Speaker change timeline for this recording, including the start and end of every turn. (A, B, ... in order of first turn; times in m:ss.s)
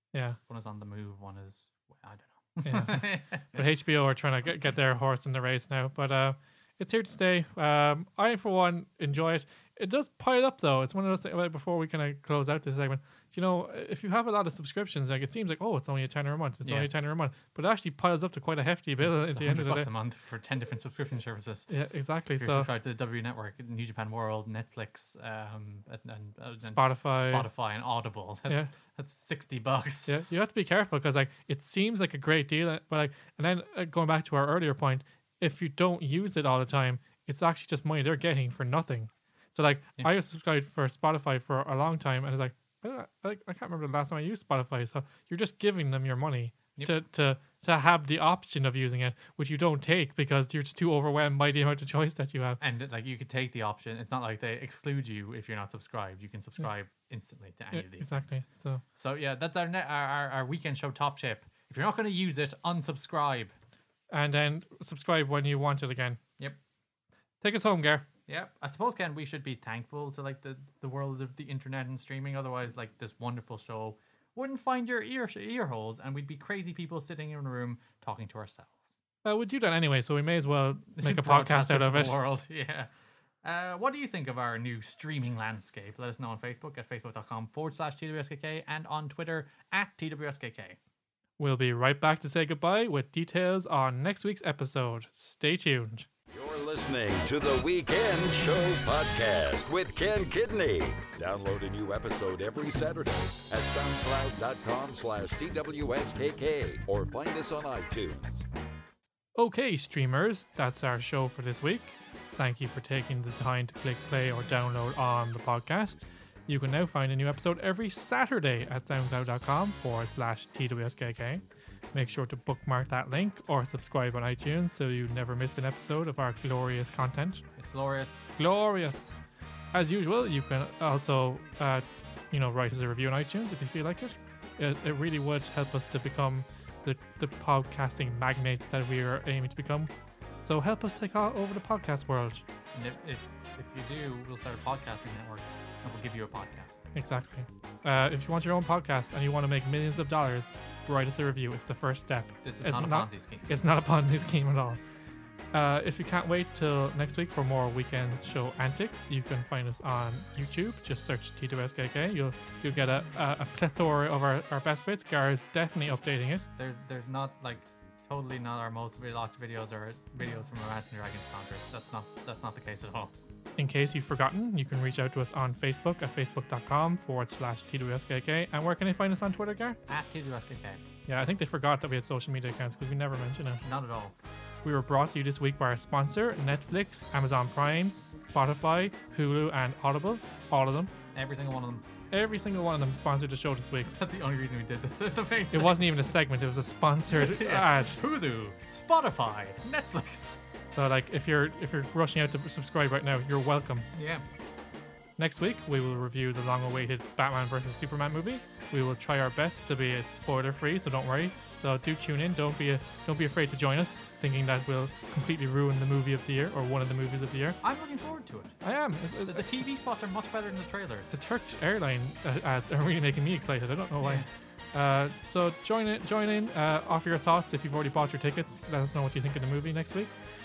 0:00.1-0:00.4 A
0:00.5-0:03.6 B
0:02.6-0:19.9 A
0:16.6-0:16.9 B
0:19.0-0:21.7 B
0:21.7-0:22.7 A
0:22.4-0:30.1 B
0:26.6-0:27.5 A
0:30.0-0:52.6 A
0:52.6-0:58.4 B
0:57.7-0:58.8 A
0:59.0-1:03.5 B
1:04.1-1:06.2 A
1:07.4-1:08.0 A
1:08.3-1:18.8 B
1:19.2-1:22.2 A
1:20.9-1:22.9 B
1:23.4-1:30.8 B
1:31.4-1:36.1 A
1:36.3-1:48.4 C
1:49.4-2:01.4 A
2:01.9-2:07.4 A
2:07.6-2:08.2 B
2:08.4-2:09.1 A
2:09.7-2:19.9 A
2:20.4-2:22.4 A
2:22.7-2:26.7 B
2:26.9-2:34.8 A
2:32.4-2:33.5 B
2:35.5-2:46.4 A
2:46.6-2:53.1 B
2:53.6-2:59.8 A
2:59.9-3:00.8 B
3:01.1-3:03.6 A
3:03.6-3:04.2 B
3:04.6-3:10.9 A
3:11.1-3:11.8 B
3:12.1-3:13.9 A
3:13.9-3:15.8 B
3:15.5-3:18.0 A
3:17.1-3:20.4 B
3:20.7-3:23.9 A
3:23.9-3:24.2 B
3:25.2-3:37.6 A
3:37.6-3:38.5 B
3:38.6-3:39.4 A
3:39.2-3:41.1 B
3:41.1-3:50.1 A
3:44.0-3:44.3 B